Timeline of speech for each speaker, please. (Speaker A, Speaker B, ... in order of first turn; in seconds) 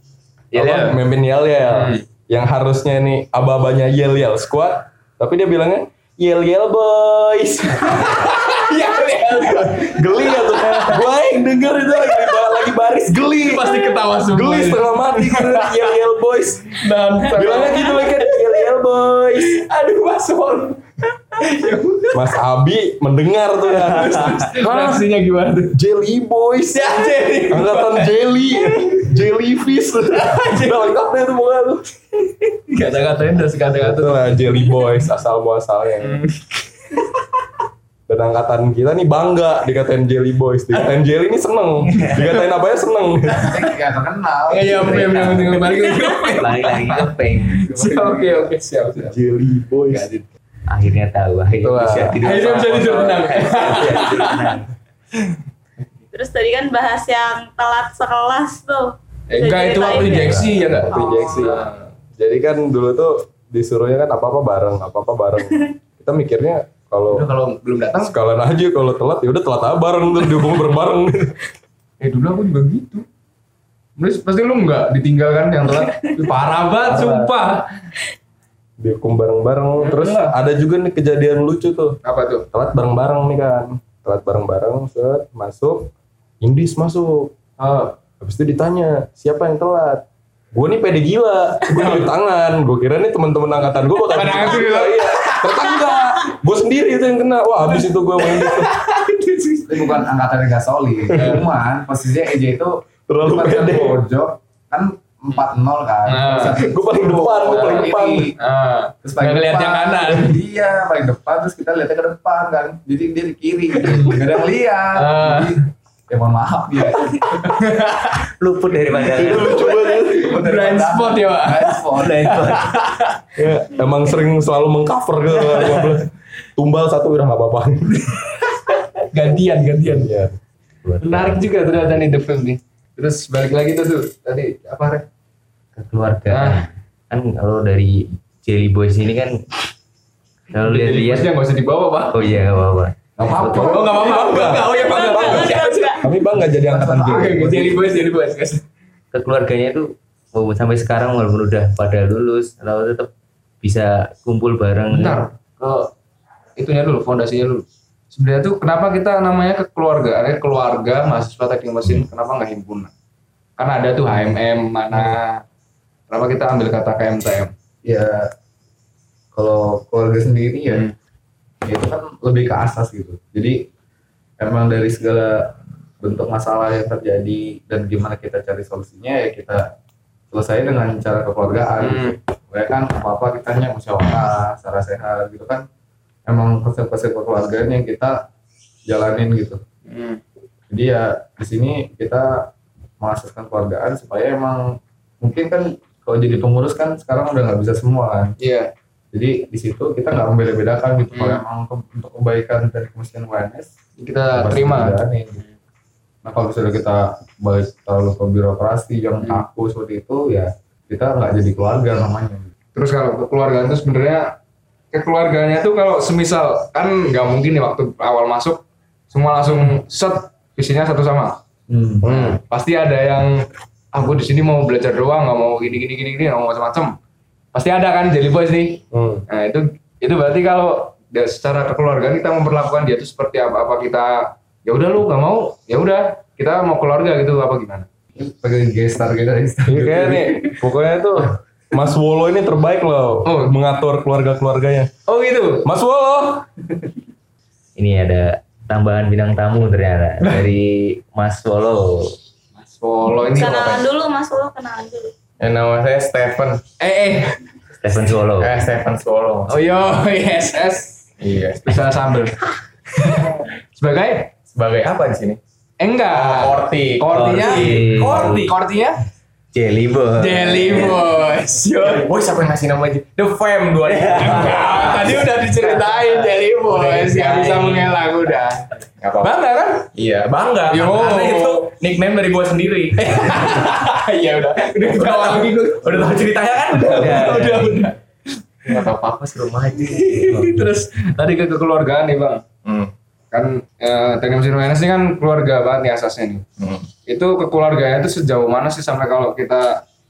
Speaker A: 0.5-1.0, 1.6-2.1, 7.8-11.1, 12.1-12.5, 13.4-15.9, 16.7-18.7, 19.4-22.4, 23.7-25.8, 26.7-29.1, 30.1-30.9, 32.5-34.9, 36.0-37.1, 44.5-49.1, 49.9-50.3, 51.6-54.6, 59.3-61.8, 67.1-68.1, 72.0-73.0, 74.0-77.7, 79.8-80.3, 82.0-82.5, 87.6-87.9, 91.6-92.1, 94.1-96.3, 97.7-100.0, 101.2-101.5, 106.0-106.6, 107.4-110.4, 113.8-115.6, 117.3-118.3, 120.1-123.3, 128.0-130.1, 131.0-135.0, 136.3-136.6, 140.6-142.4, 143.2-146.2, 146.7-148.6, 154.9-155.9, 156.6-162.9, 163.6-165.4, 166.1-167.5, 181.8-182.2, 189.8-190.2, 198.4-198.7, 201.1-201.4, 204.0-205.0, 212.7-214.4, 214.9-221.4, 222.1-226.9, 227.5-237.9, 243.2-243.5, 245.1-245.7, 252.6-253.8, 256.8-257.4, 259.5-261.0, 261.6-262.4, 262.9-264.3, 265.8-269.0, 270.2-272.1, 274.1-279.9, 280.7-281.7, 283.0-287.9, 289.8-292.4, 293.3-296.4, 297.1-299.8
Speaker B: 0.5-19.6, 22.1-25.0, 25.7-31.9, 33.7-36.2, 38.1-43.6, 49.0-50.1, 60.6-67.3, 68.0-71.4, 76.8-77.3, 78.8-82.0, 82.5-87.4, 88.2-98.7, 101.1-101.4, 103.1-104.0, 106.5-108.3, 119.0-120.3, 123.3-128.2, 129.8-130.3, 143.9-147.7, 222.0-222.4, 228.9-229.2, 239.7-244.9, 245.6-246.4
Speaker C: 42.0-42.2, 44.9-47.6, 50.7-54.7, 60.1-60.6, 118.2-119.7, 121.9-122.7, 130.8-132.1, 135.8-139.4, 140.5-141.3, 142.1-144.0, 149.1-153.1, 153.6-155.2, 247.8-252.2, 257.8-258.5, 267.1-268.5, 269.5-271.1, 273.9-275.1, 276.7-277.9, 286.8-287.9
Speaker D: 43.4-45.6, 47.7-48.5, 99.7-108.3, 109.0-117.6, 119.3-122.4, 146.6-147.8, 167.8-168.3, 169.3-170.9, 171.7-173.6, 174.4-179.7, 180.3-185.7, 186.3-188.2, 188.9-189.6, 190.7-192.5, 193.0-198.3, 199.1-203.7, 204.3-205.4, 206.2-212.5, 221.7-222.1, 238.2-240.6
Speaker E: 56.1-61.5, 144.4-146.0, 253.2-255.1
Speaker F: 255.4-256.6, 258.4-259.7, 261.2-261.8, 264.5-265.4, 266.1-268.5, 271.8-275.3, 279.0-279.3, 279.9-287.5, 288.6-290.6, 292.6-292.9, 296.6-296.9